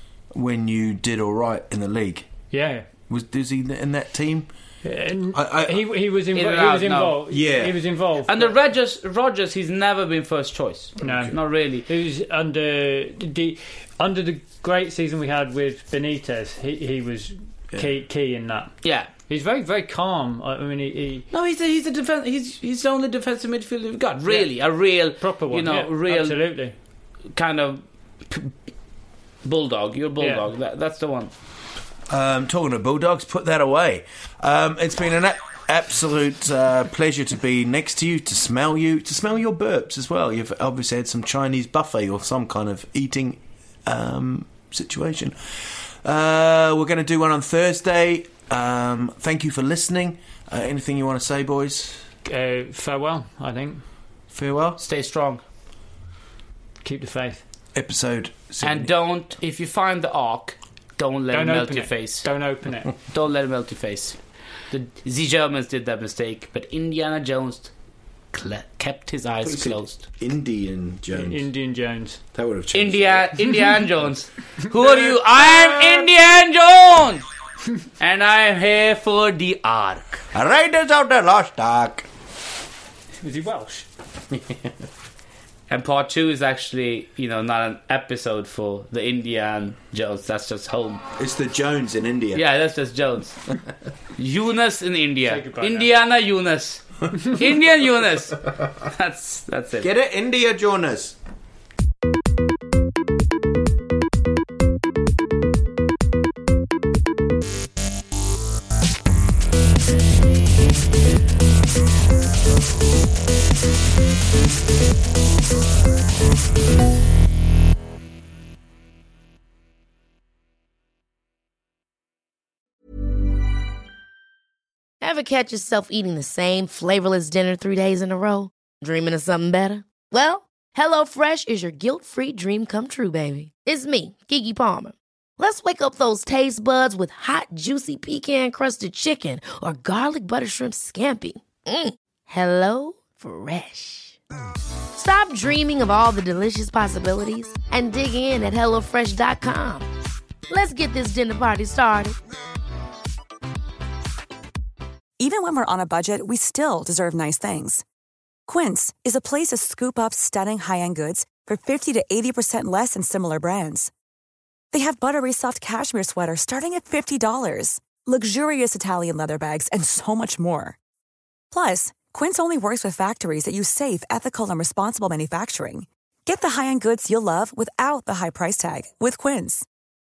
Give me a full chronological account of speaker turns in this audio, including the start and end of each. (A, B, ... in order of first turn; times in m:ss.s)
0:00.3-0:02.3 A
0:02.5-0:02.8 B
0:03.1-0:04.5 A
0:04.8-0:08.5 B
0:05.3-0:05.8 A
0:06.3-0:07.2 C
0:07.3-0:07.8 A
0:08.2-0:11.8 C
0:11.0-0:11.3 A
0:11.0-0:18.8 B
0:18.8-0:19.1 C
0:19.3-0:21.3 B
0:21.3-0:26.4 C
0:25.0-0:26.7 B
0:27.3-0:28.5 C
0:29.4-0:31.3 C
0:30.2-0:30.4 B
0:32.1-0:45.3 A
0:46.0-0:52.0 A
0:52.2-0:53.8 B
0:54.3-0:54.8 A
0:54.8-0:55.4 C
0:56.8-0:57.4 B
0:57.7-0:58.9 A
0:58.6-1:02.3 C
1:01.3-1:02.9 B
1:03.1-1:04.2 C
1:04.7-1:07.7 C
1:08.3-1:10.0 C
1:09.4-1:11.4 A
1:11.1-1:12.2 B
1:12.3-1:13.5 A
1:12.7-1:17.2 C
1:18.0-1:20.2 C
1:20.3-1:22.0 A
1:23.2-1:23.8 B
1:24.3-1:24.6 A
1:25.7-1:31.0 C
1:31.2-1:32.4 A
1:32.3-1:33.4 C
1:34.2-1:39.9 C
1:35.2-1:35.9 B
1:39.8-1:41.2 A
2:05.0-2:24.2 D
2:24.9-2:29.9 D
2:30.5-2:32.2 D
2:35.2-2:37.8 E
2:38.5-2:43.9 E
2:44.7-2:50.8 E
2:51.5-2:59.6 E